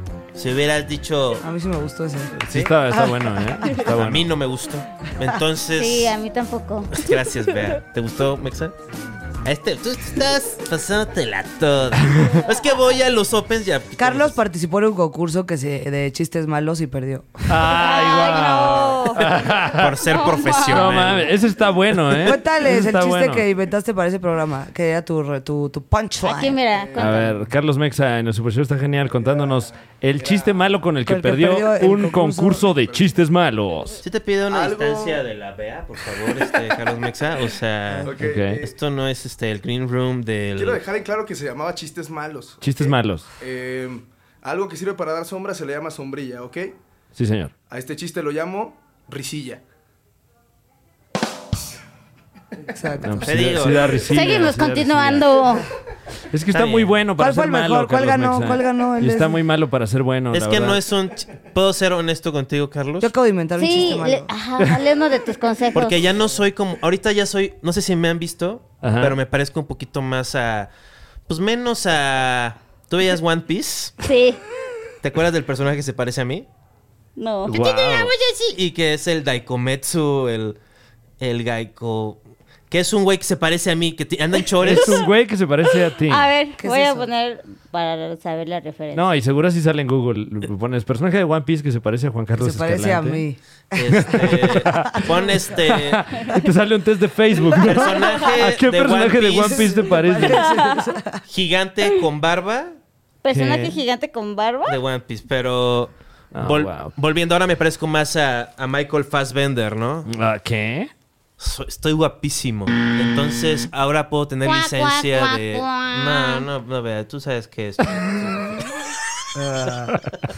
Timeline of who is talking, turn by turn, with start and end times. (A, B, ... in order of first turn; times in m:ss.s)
0:00.3-0:01.4 A
0:01.4-0:02.3 B
0:02.4-0:04.3 C
0:02.5-0:02.7 A
0:02.9-0:03.6 B
0:03.6-0:06.1 A
0:05.8-0:07.1 D
0:06.9-0:08.8 A
0:09.4-0:14.4 A
0:14.0-0:17.4 B
0:17.5-0:20.0 C
0:17.7-0:19.4 D
0:19.7-0:21.3 A
0:20.0-0:21.1 D
0:20.6-0:23.4 C
0:22.1-0:26.6 B
0:26.2-0:27.4 D
0:27.0-0:34.0 C
0:31.0-0:32.7 B
0:32.8-0:33.1 E
0:34.0-0:40.8 A
0:34.5-0:35.2 E
0:38.0-0:38.7 E
0:38.2-0:38.6 C
0:40.6-0:46.7 E
0:42.6-0:43.2 C
0:47.1-0:47.5 C
0:47.7-0:49.6 E
0:52.6-0:53.3 B
0:53.0-0:55.2 C
0:53.2-0:54.1 A
0:54.1-0:55.7 D
0:56.3-1:00.8 C
0:56.5-0:57.0 A
0:57.2-0:59.4 B
1:00.3-1:03.1 A
1:03.0-1:04.3 B
1:03.6-1:06.0 D
1:05.7-1:10.7 A
1:08.8-1:09.2 C
1:11.3-1:14.0 A
1:14.0-1:14.4 D
1:15.0-1:16.4 A
1:17.2-1:18.5 D
1:17.4-1:18.1 C
1:17.9-1:20.6 A
1:21.2-1:25.1 A
1:24.6-1:26.3 C
1:24.7-1:25.0 D
1:25.9-1:29.1 D
1:26.6-1:27.1 B
1:28.9-1:33.2 C
1:32.4-1:35.1 B
1:33.7-1:36.1 A
1:33.9-1:35.1 C
1:35.6-1:40.5 C
1:37.5-1:39.8 A
1:39.4-1:41.2 B
1:40.2-1:40.9 D
1:41.3-1:42.7 A
1:43.2-1:44.8 D
1:43.3-1:43.8 C
1:44.7-1:50.1 A
1:46.3-1:46.9 C
1:50.1-1:50.9 C
1:51.4-1:58.7 A
1:54.4-1:56.4 D
1:59.4-1:59.9 B
1:59.9-2:00.1 C